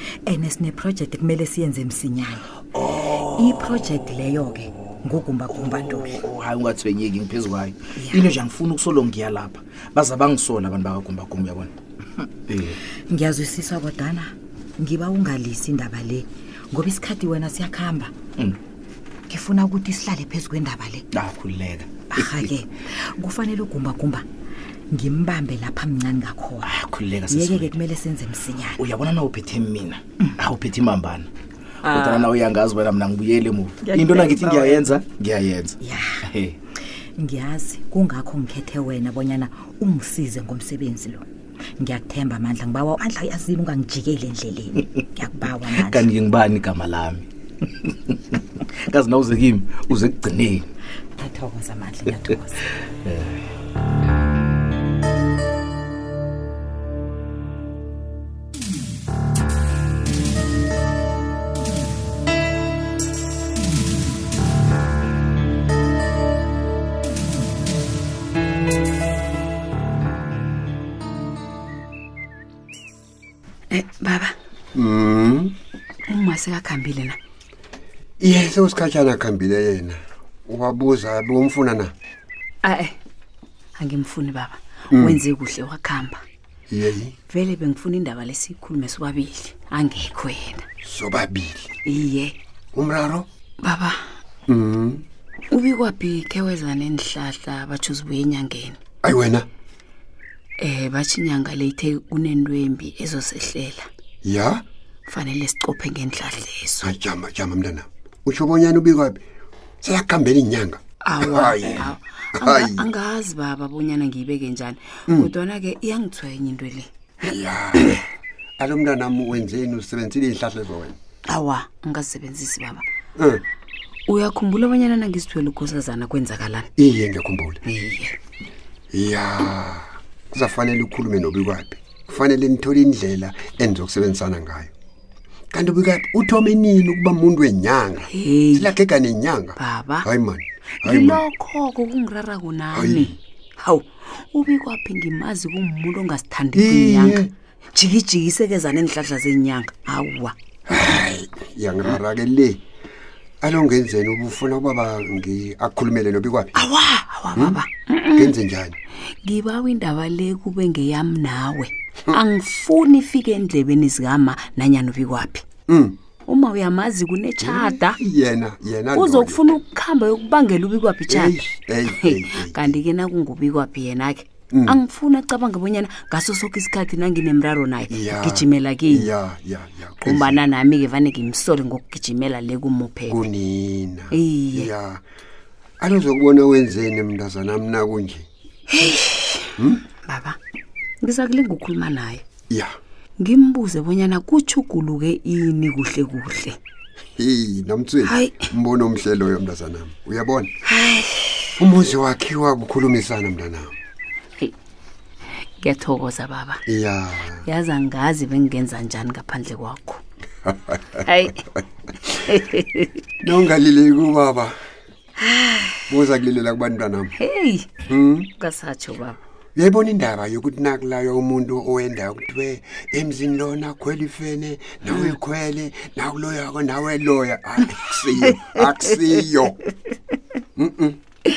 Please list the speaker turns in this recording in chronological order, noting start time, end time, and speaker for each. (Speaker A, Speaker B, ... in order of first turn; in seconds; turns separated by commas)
Speaker A: 0.2-2.5, Speaker B: 2.8-3.6, Speaker A: 3.0-6.2, Speaker B: 5.5-11.7, Speaker A: 8.0-8.3, Speaker B: 12.5-12.8, Speaker A: 13.1-18.1, Speaker A: 19.3-21.1, Speaker B: 21.1-22.5, Speaker A: 22.1-24.2, Speaker A: 24.9-26.7, Speaker B: 26.6-27.7, Speaker A: 27.3-28.8, Speaker B: 28.8-31.3, Speaker B: 31.8-36.6, Speaker A: 31.8-32.3, Speaker A: 33.8-34.9, Speaker A: 35.8-36.2, Speaker A: 37.2-41.2, Speaker A: 41.8-46.1, Speaker B: 45.7-50.6, Speaker A: 51.2-52.7, Speaker B: 53.0-53.4, Speaker C: 73.7-74.3, Speaker D: 74.7-75.5, Speaker C: 76.1-77.2, Speaker D: 78.2-81.9, Speaker C: 82.6-82.9, Speaker C: 83.8-86.2, Speaker D: 84.9-85.2, Speaker D: 86.7-87.1, Speaker C: 87.3-90.6, Speaker D: 90.8-91.7, Speaker C: 91.8-92.3, Speaker D: 92.7-93.3, Speaker C: 93.6-94.0, Speaker D: 94.5-95.0, Speaker C: 95.5-98.8, Speaker D: 99.0-99.5, Speaker C: 100.6-103.9, Speaker D: 104.2-104.6, Speaker C: 105.1-106.9, Speaker D: 106.8-109.2, Speaker D: 109.8-112.9, Speaker C: 111.0-116.9, Speaker D: 117.2-118.0, Speaker D: 118.6-121.0, Speaker C: 121.3-122.8, Speaker C: 124.1-126.7, Speaker D: 126.8-127.6, Speaker C: 127.6-128.2, Speaker D: 128.9-134.7, Speaker D: 135.5-141.3, Speaker C: 138.1-138.7, Speaker C: 139.6-140.1, Speaker C: 140.8-150.3, Speaker D: 142.7-143.2, Speaker D: 146.5-147.3, Speaker D: 150.7-152.6, Speaker D: 153.4-156.6, Speaker C: 156.6-158.3, Speaker D: 157.3-158.8, Speaker C: 159.2-165.4, Speaker D: 165.7-166.0, Speaker C: 166.3-168.0, Speaker D: 167.4-169.5, Speaker C: 168.9-171.3, Speaker D: 171.1-172.8, Speaker C: 171.9-179.1, Speaker D: 174.5-174.8, Speaker D: 177.9-180.4, Speaker C: 180.0-183.3, Speaker D: 183.1-185.0, Speaker C: 184.1-184.7, Speaker D: 185.8-188.2, Speaker C: 188.7-189.5, Speaker C: 190.1-190.4, Speaker C: 191.0-192.2, Speaker C: 193.2-196.6, Speaker D: 197.2-200.5, Speaker C: 198.1-198.5, Speaker C: 200.7-201.5, Speaker D: 201.6-203.7, Speaker C: 205.6-206.6, Speaker D: 206.7-207.4, Speaker C: 207.4-210.0, Speaker C: 211.1-211.4, Speaker C: 212.3-212.9, Speaker D: 213.2-214.5, Speaker C: 215.2-216.0, Speaker D: 215.9-217.1, Speaker C: 217.2-217.7, Speaker D: 217.9-218.3, Speaker C: 218.4-219.2, Speaker D: 219.6-229.6, Speaker D: 230.6-231.0